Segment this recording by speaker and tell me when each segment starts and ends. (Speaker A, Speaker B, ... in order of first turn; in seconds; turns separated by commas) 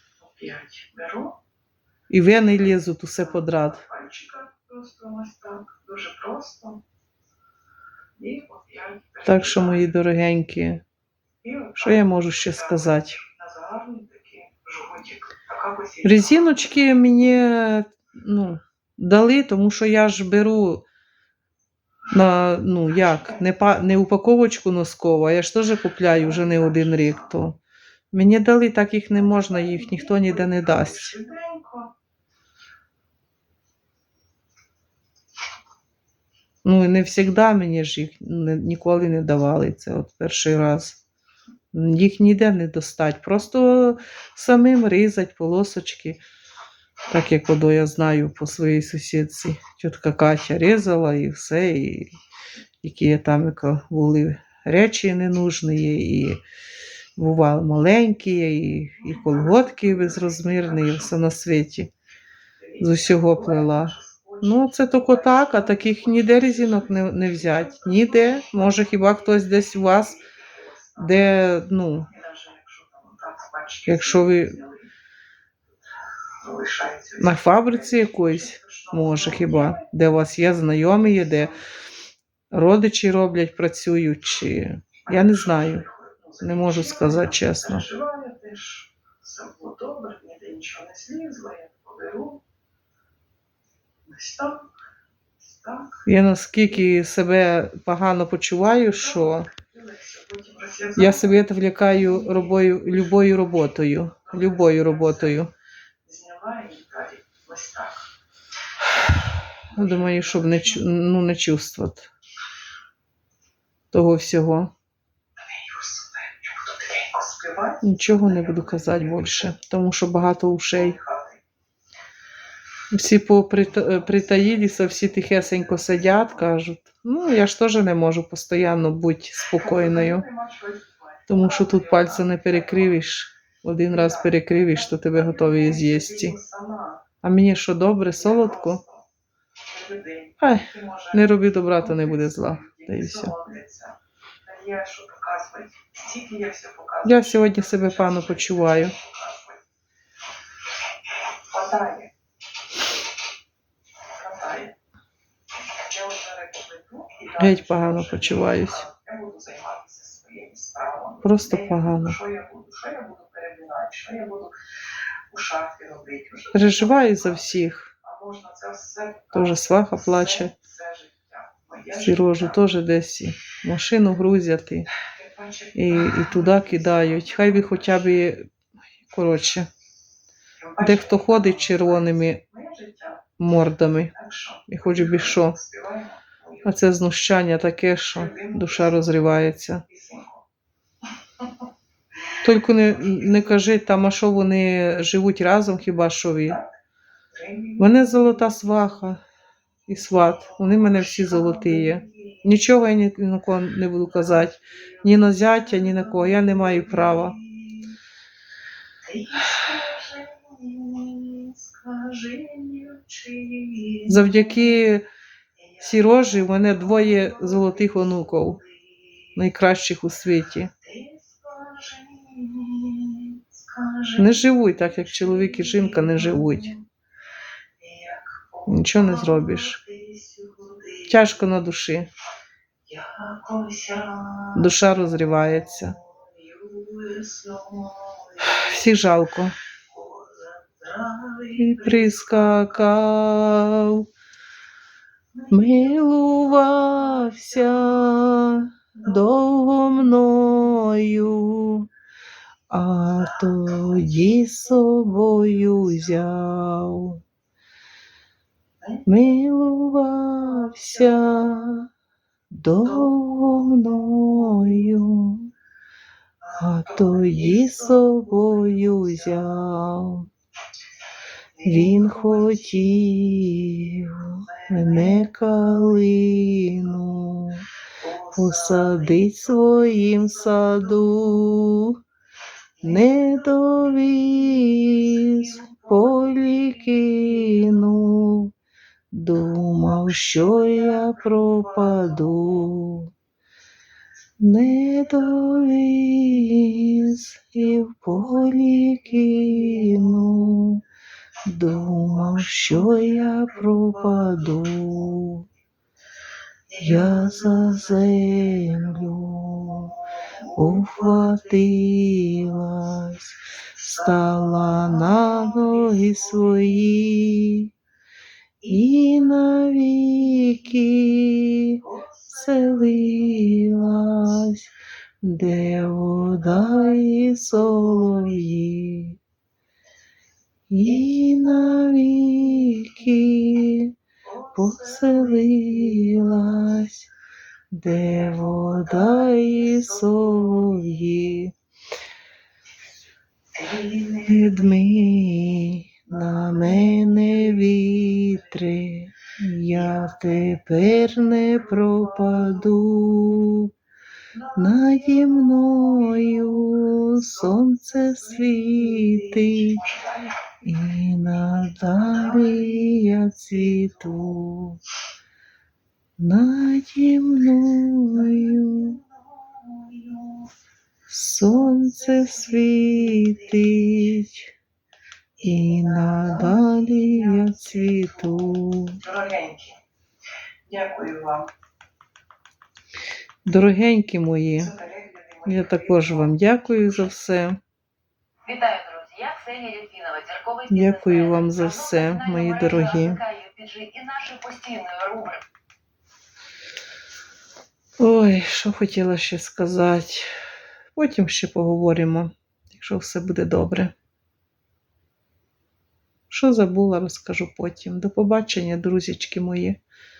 Speaker A: 0.2-1.3, Speaker B: 2.1-3.9, Speaker A: 4.0-6.8, Speaker A: 8.2-9.2, Speaker B: 9.2-10.8, Speaker B: 11.8-13.2, Speaker A: 13.5-15.6, Speaker B: 16.0-20.9, Speaker B: 22.1-27.6, Speaker B: 28.1-31.2, Speaker A: 31.2-31.9, Speaker B: 36.6-41.0, Speaker B: 41.7-46.2, Speaker B: 47.1-52.1, Speaker B: 52.8-56.4, Speaker B: 57.2-61.9, Speaker B: 62.8-70.2, Speaker B: 71.0-72.1, Speaker A: 72.4-73.9, Speaker B: 73.8-74.6, Speaker A: 76.4-77.2, Speaker B: 77.2-81.6, Speaker B: 82.5-85.9, Speaker B: 86.4-87.9, Speaker A: 87.8-92.4, Speaker A: 94.1-94.6, Speaker B: 96.1-99.5, Speaker A: 99.6-100.9, Speaker B: 100.9-105.5, Speaker A: 106.0-107.9, Speaker B: 109.7-112.1, Speaker B: 113.9-114.7, Speaker A: 115.8-116.1, Speaker A: 116.6-117.8, Speaker B: 117.8-121.0, Speaker B: 122.9-130.3, Speaker A: 129.8-130.9, Speaker B: 131.3-136.4, Speaker A: 135.4-136.9, Speaker B: 137.2-138.8, Speaker A: 139.8-140.1, Speaker B: 140.4-143.3, Speaker A: 142.8-143.9, Speaker A: 144.5-147.0, Speaker B: 147.0-149.0, Speaker A: 151.5-152.1, Speaker A: 154.2-154.7, Speaker A: 155.8-157.8, Speaker B: 157.3-158.9, Speaker A: 158.9-161.0, Speaker B: 161.2-162.2, Speaker A: 162.3-164.5, Speaker A: 165.3-166.5, Speaker B: 166.5-167.9, Speaker A: 168.3-169.3, Speaker B: 169.3-170.5, Speaker B: 171.9-174.9, Speaker B: 175.8-178.5, Speaker B: 179.1-179.7, Speaker B: 180.8-182.4, Speaker A: 182.7-183.0, Speaker B: 183.4-184.2, Speaker B: 184.7-185.6, Speaker B: 186.6-189.8, Speaker A: 189.9-190.3, Speaker B: 192.4-196.6, Speaker B: 197.8-199.2, Speaker B: 199.9-207.4, Speaker A: 209.1-213.9, Speaker B: 214.1-215.1, Speaker B: 215.8-218.6, Speaker B: 219.3-220.7, Speaker A: 221.0-223.9, Speaker B: 224.2-226.8, Speaker A: 227.8-228.3, Speaker B: 228.7-229.8, Speaker A: 229.8-230.8, Speaker B: 231.1-232.1, Speaker A: 232.9-234.4, Speaker B: 234.5-236.0, Speaker A: 236.4-238.3, Speaker B: 238.4-239.6, Speaker A: 240.0-241.5, Speaker B: 241.6-244.1, Speaker B: 245.5-251.9, Speaker B: 252.7-257.2, Speaker B: 259.1-261.9, Speaker B: 262.5-265.5, Speaker B: 266.6-270.3, Speaker B: 271.6-277.7, Speaker B: 278.3-282.0, Speaker B: 282.8-288.5, Speaker B: 289.1-293.1, Speaker B: 294.4-300.8, Speaker B: 301.4-305.5, Speaker B: 306.8-310.0, Speaker B: 310.5-317.7, Speaker B: 318.6-324.7, Speaker B: 325.2-329.2, Speaker B: 330.7-333.9, Speaker B: 334.5-337.1, Speaker B: 337.7-341.5, Speaker B: 344.1-353.7, Speaker B: 354.6-359.8, Speaker B: 360.6-364.8, Speaker B: 366.2-369.0, Speaker B: 371.1-374.5, Speaker B: 375.4-379.0, Speaker A: 379.2-379.7, Speaker A: 380.7-381.4, Speaker B: 383.4-384.8, Speaker B: 385.4-387.6, Speaker C: 388.5-390.7, Speaker B: 390.7-393.3, Speaker C: 393.2-395.4, Speaker B: 398.0-400.3, Speaker B: 400.9-403.9, Speaker B: 406.3-409.8